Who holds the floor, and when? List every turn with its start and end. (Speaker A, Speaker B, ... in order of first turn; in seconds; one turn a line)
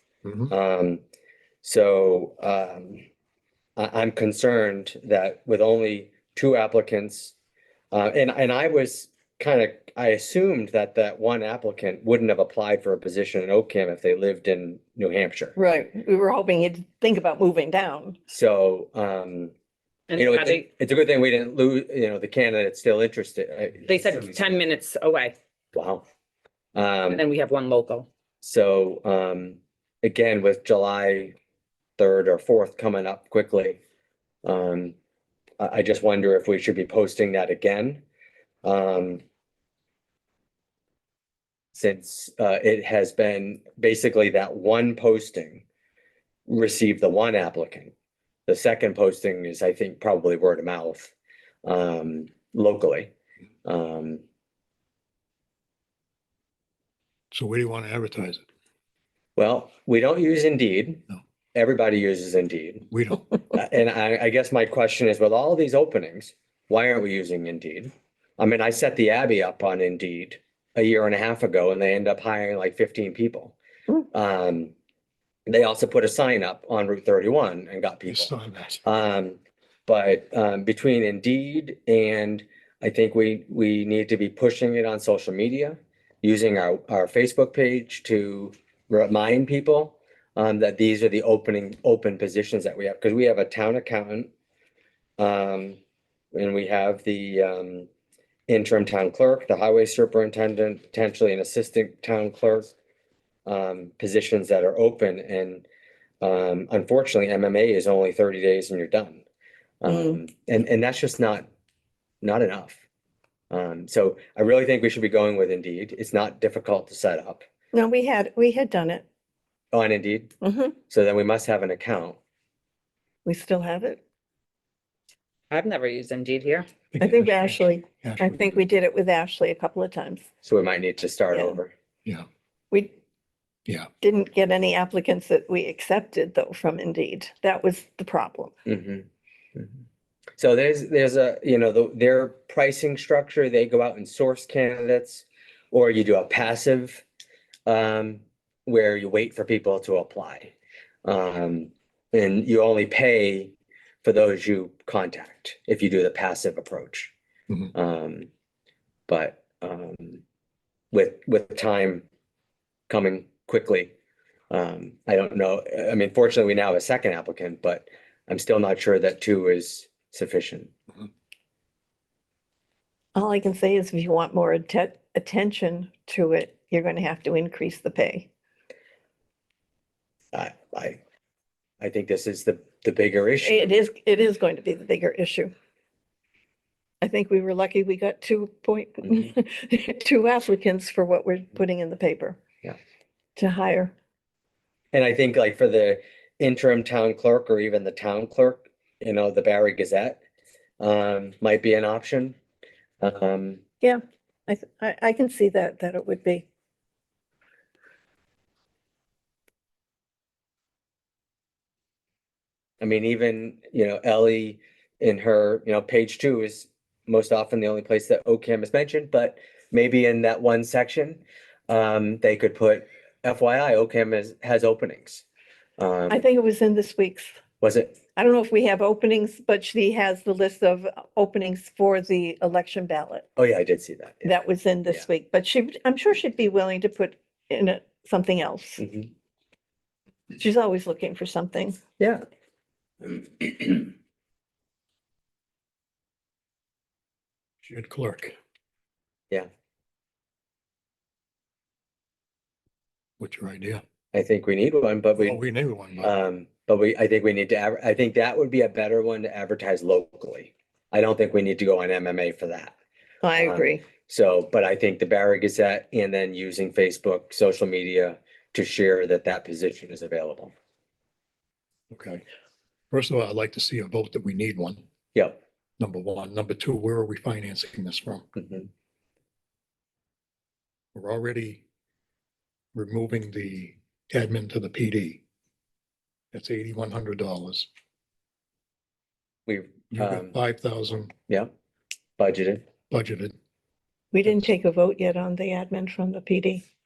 Speaker A: 0.2-0.5
Speaker B: 0.5-1.0
Speaker B: 1.6-3.0
Speaker B: 3.8-7.3
Speaker B: 7.9-15.6
Speaker C: 15.6-18.2
Speaker B: 18.3-19.5
Speaker D: 20.1-20.6
Speaker B: 20.2-24.6
Speaker D: 23.9-25.4
Speaker B: 25.7-26.0
Speaker B: 26.8-27.2
Speaker D: 27.1-28.1
Speaker B: 28.4-31.3
Speaker B: 32.0-33.8
Speaker B: 34.4-35.0
Speaker B: 35.6-38.0
Speaker B: 38.6-39.2
Speaker B: 41.7-45.6
Speaker B: 46.5-47.9
Speaker B: 48.5-51.1
Speaker B: 51.6-53.1
Speaker B: 53.6-54.2
Speaker A: 57.3-58.4
Speaker B: 59.4-61.0
Speaker B: 61.5-62.9
Speaker A: 62.9-63.3
Speaker B: 63.5-73.6
Speaker B: 74.1-74.7
Speaker B: 75.5-78.3
Speaker A: 78.1-78.8
Speaker B: 78.8-94.3
Speaker B: 95.2-95.8
Speaker B: 96.3-97.9
Speaker B: 98.5-102.7
Speaker B: 103.5-105.7
Speaker B: 106.2-109.2
Speaker B: 109.8-111.5
Speaker C: 109.9-110.2
Speaker B: 112.2-112.8
Speaker B: 113.5-117.4
Speaker C: 117.7-119.0
Speaker B: 119.7-120.3
Speaker C: 120.4-120.8
Speaker B: 120.9-122.2
Speaker C: 123.2-124.0
Speaker D: 125.5-126.7
Speaker A: 126.9-128.7
Speaker C: 127.0-130.3
Speaker B: 130.4-131.7
Speaker C: 131.3-131.6
Speaker C: 134.0-138.5
Speaker B: 138.7-139.8
Speaker B: 140.4-147.0
Speaker B: 147.7-150.5
Speaker B: 151.0-157.1
Speaker B: 157.7-158.3
Speaker B: 159.1-160.2
Speaker B: 160.9-162.1
Speaker B: 162.9-163.9
Speaker B: 164.5-170.7
Speaker C: 173.2-178.3
Speaker B: 180.3-181.0
Speaker B: 181.8-183.8
Speaker C: 183.4-185.5
Speaker C: 187.0-192.4
Speaker C: 193.4-193.9
Speaker B: 194.9-200.2
Speaker B: 200.8-202.4
Speaker B: 203.0-203.6
Speaker C: 203.8-206.5
Speaker B: 212.8-225.2
Speaker B: 225.8-226.2
Speaker C: 226.1-227.3
Speaker B: 227.6-228.0
Speaker C: 228.2-233.3
Speaker B: 233.4-234.4
Speaker C: 234.2-238.8
Speaker B: 238.8-239.1
Speaker C: 240.3-241.8
Speaker B: 242.0-242.2
Speaker A: 247.6-248.4
Speaker A: 253.2-253.8
Speaker B: 254.1-255.4
Speaker A: 255.2-256.1
Speaker B: 256.0-262.7
Speaker C: 263.2-263.9
Speaker B: 263.4-270.5
Speaker A: 271.9-272.2
Speaker A: 272.9-274.8
Speaker A: 275.8-278.3
Speaker B: 278.4-278.7
Speaker A: 280.9-281.6
Speaker A: 282.7-285.2
Speaker A: 286.3-287.7
Speaker B: 289.5-290.4
Speaker A: 289.9-291.1
Speaker B: 292.2-292.7
Speaker A: 292.9-293.4
Speaker C: 294.1-296.6